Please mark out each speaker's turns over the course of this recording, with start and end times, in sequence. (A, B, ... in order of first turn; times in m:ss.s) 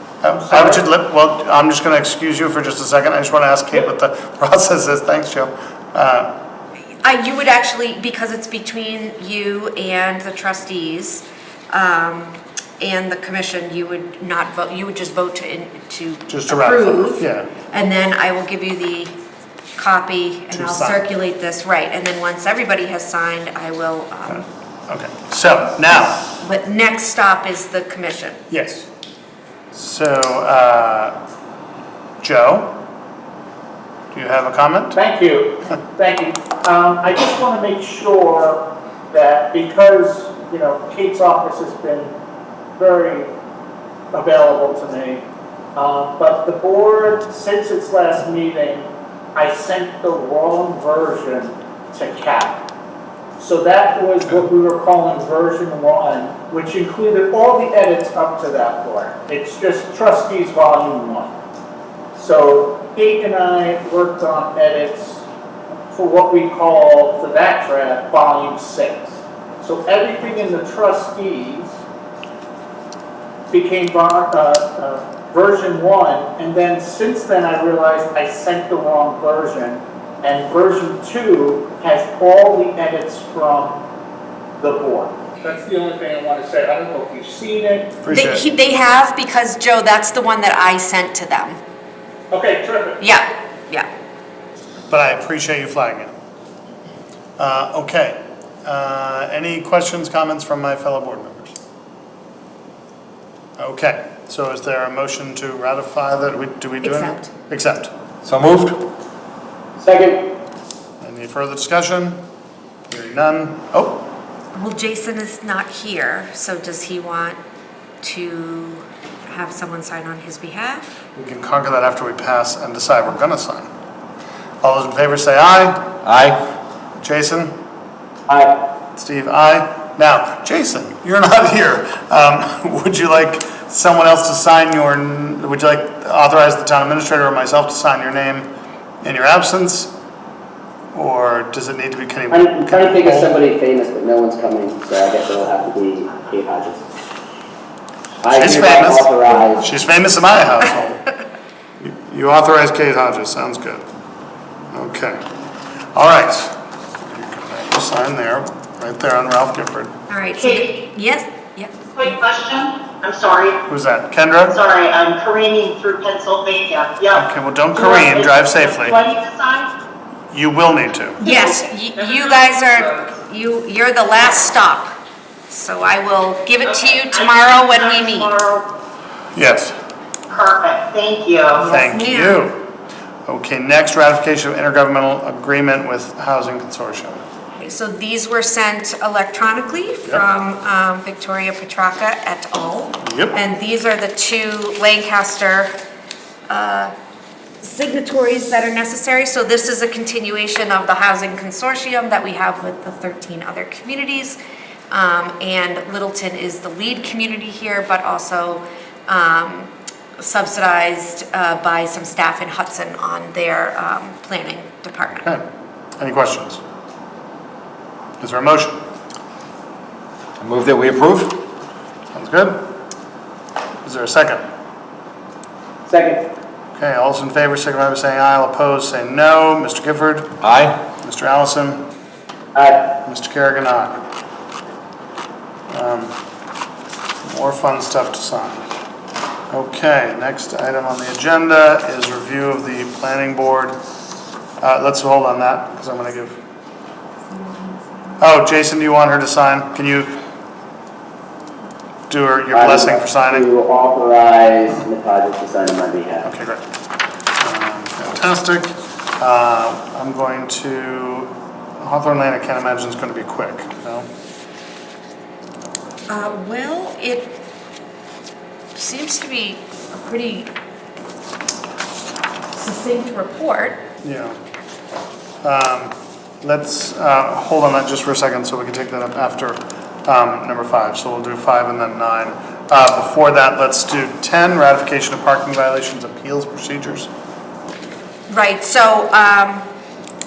0:00.2-0:06.3 A
0:00.3-0:00.8 B
0:07.0-0:19.2 C
0:16.3-0:17.5 A
0:19.8-0:24.4 C
0:20.5-0:21.0 A
0:24.3-0:26.3 A
0:26.4-0:28.4 C
0:28.5-0:28.9 A
0:29.7-0:31.2 A
0:32.2-0:32.8 A
0:34.1-0:35.0 A
0:34.9-0:42.1 B
0:42.8-0:43.3 B
0:44.1-0:45.2 B
0:45.7-0:52.6 B
0:53.4-1:01.3 B
1:02.1-1:05.2 B
1:05.9-1:11.8 B
1:13.5-1:23.8 B
1:24.6-1:27.9 B
1:28.0-1:28.5 A
1:28.1-1:31.6 C
1:32.3-1:33.0 B
1:33.0-1:33.9 C
1:34.9-1:36.1 A
1:37.4-1:41.5 A
1:43.6-1:47.9 A
1:46.8-1:47.3 C
1:48.2-1:48.8 D
1:49.8-1:50.3 E
1:51.0-1:52.2 A
1:52.9-1:54.0 A
1:54.5-1:57.4 C
1:58.0-2:00.9 C
2:01.2-2:03.7 A
2:04.6-2:05.9 A
2:06.0-2:06.4 D
2:07.0-2:07.5 A
2:08.3-2:08.5 E
2:09.0-2:18.5 A
2:19.0-2:19.9 A
2:20.9-2:23.4 A
2:22.3-2:26.8 E
2:28.2-2:29.7 E
2:28.3-2:31.0 A
2:31.8-2:33.8 A
2:34.7-2:35.2 A
2:35.9-2:39.9 A
2:40.1-2:41.9 C
2:40.4-2:40.7 F
2:41.9-2:43.6 F
2:43.7-2:44.6 A
2:44.5-2:49.7 F
2:47.1-2:49.0 A
2:50.3-2:51.2 A
2:51.2-2:54.9 C
2:51.2-2:52.3 F
2:55.5-2:58.3 C
2:56.7-2:58.7 F
2:59.3-2:59.7 A
3:00.3-3:01.6 F
3:01.5-3:02.4 C
3:01.6-3:02.6 A
3:03.3-3:07.2 A
3:07.6-3:15.7 C
3:13.0-3:13.4 A
3:16.5-3:16.9 C
3:17.6-3:24.4 C
3:24.9-3:35.3 C
3:36.0-3:36.6 A
3:38.2-3:38.8 A
3:40.4-3:41.4 D
3:42.1-3:42.6 A
3:43.8-3:44.4 A
3:45.9-3:46.2 E
3:46.7-3:50.3 A
3:50.4-3:50.7 D
3:51.0-3:51.9 A
3:52.5-3:52.9 E
3:53.0-3:54.0 A
3:55.7-3:56.1 A
3:57.2-3:58.6 A
3:59.5-4:03.8 A
4:04.6-4:06.4 A
4:08.2-4:10.1 A
4:12.1-4:13.5 A
4:12.5-4:16.3 E
4:16.2-4:16.6 A
4:17.4-4:24.1 A
4:26.1-4:27.4 C
4:28.7-4:30.5 C
4:32.5-4:33.8 C
4:34.0-4:34.4 A
4:35.4-4:47.1 A
4:48.3-4:49.6 C